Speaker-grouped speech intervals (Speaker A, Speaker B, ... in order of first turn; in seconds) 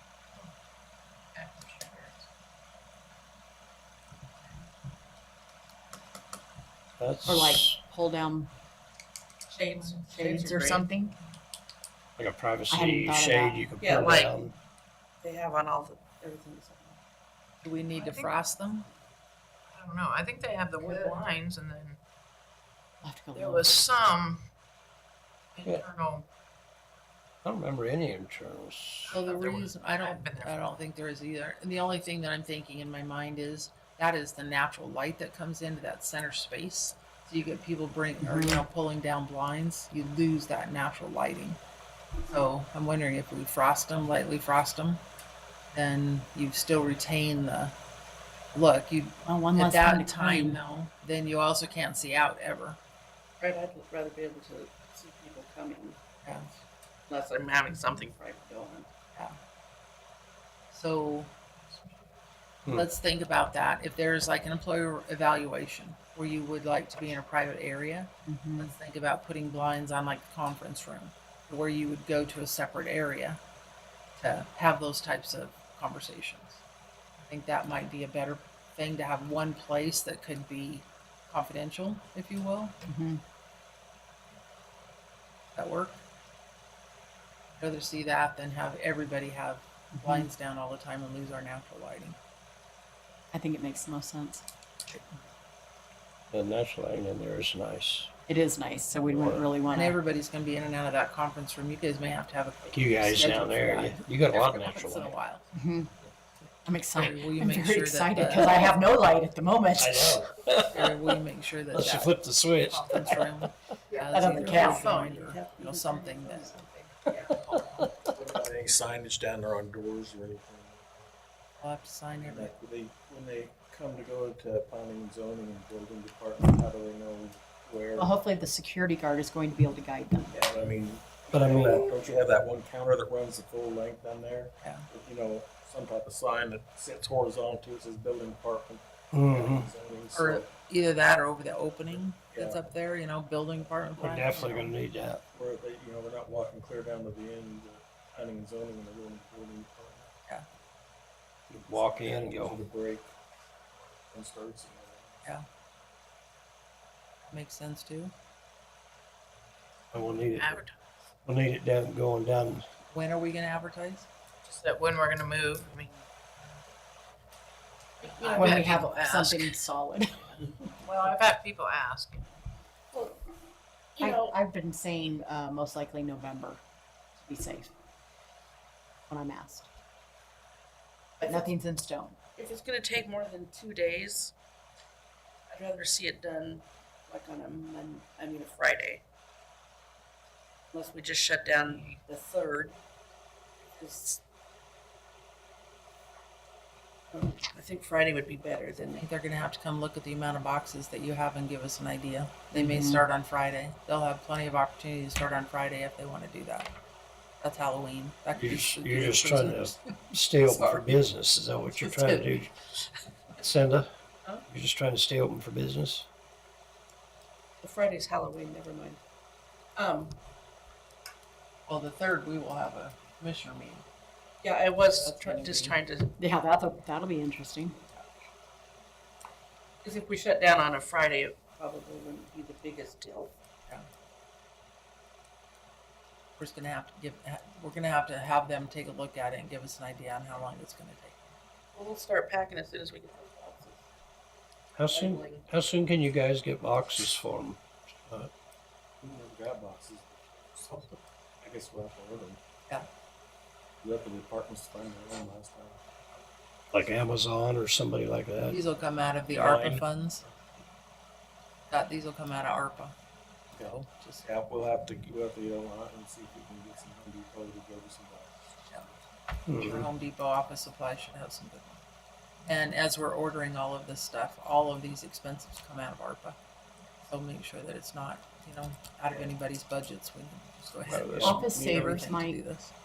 Speaker A: 1.3-2.1, 10.2-10.7, 17.9-18.3, 19.7-22.0, 23.4-24.4, 25.5-26.2, 29.1-30.8, 113.9-115.3, 160.0-160.8, 164.4-166.0, 168.0-169.6, 170.8-172.3
Speaker B: 7.0-7.8, 12.2-14.5, 27.4-29.1, 96.3-98.1, 99.0-99.5, 102.7-105.1, 109.8-111.0, 111.7-113.5, 131.3-131.9, 139.1-139.7, 144.0-145.2, 151.5-152.6, 159.9-160.6, 161.2-162.7, 208.3-212.5, 213.3-213.9, 214.5-216.1, 244.8-248.3, 256.7-258.6, 259.3-259.8, 269.5-269.9, 280.9-281.3
Speaker C: 7.2-8.5, 10.1-11.1, 12.7-13.7, 23.0-23.9, 38.2-38.6, 49.2-50.6, 68.2-68.7, 82.8-83.2, 89.9-90.3, 93.3-95.0, 98.3-100.0, 105.5-105.9, 106.6-110.2, 114.1-114.8, 128.0-130.3, 168.3-170.5, 174.0-176.6, 177.2-177.7, 179.1-179.7, 181.2-182.2, 202.5-203.1, 226.2-227.8, 281.2-282.4
Speaker D: 9.5-10.9, 13.8-14.3, 15.2-17.0, 53.4-56.0, 57.1-58.9, 114.3-116.5, 168.0-168.8, 172.9-173.2, 174.0-174.3, 181.2-181.5, 182.3-184.3, 185.5-189.0, 190.7-192.8, 193.6-194.2, 197.1-199.1, 210.4-210.9, 211.8-212.5, 217.6-219.0, 219.8-220.2, 224.4-226.1, 229.8-233.3, 241.7-243.8, 244.9-245.4
Speaker E: 17.6-18.9, 29.1-41.6, 42.3-45.0, 45.7-47.7, 48.5-52.8, 56.2-56.5, 60.7-61.3, 62.7-73.4, 74.2-76.6, 77.2-82.8, 85.5-86.0, 87.6-92.2, 99.7-105.5, 106.9-108.8, 110.6-117.6, 121.6-122.5, 134.6-134.8, 140.1-144.7, 157.3-158.1, 162.9-164.1, 198.9-206.7, 207.4-209.8, 221.7-223.8, 225.0-225.8, 236.4-241.3, 258.5-260.2, 261.7-262.9, 263.6-264.2, 269.5-271.8, 272.4-276.4, 277.1-282.7
Speaker F: 118.1-121.0, 122.2-128.1, 130.3-140.5, 142.3-142.6, 145.3-150.1, 151.9-153.1, 153.7-155.2, 249.0-252.4, 253.8-255.8, 263.5-268.3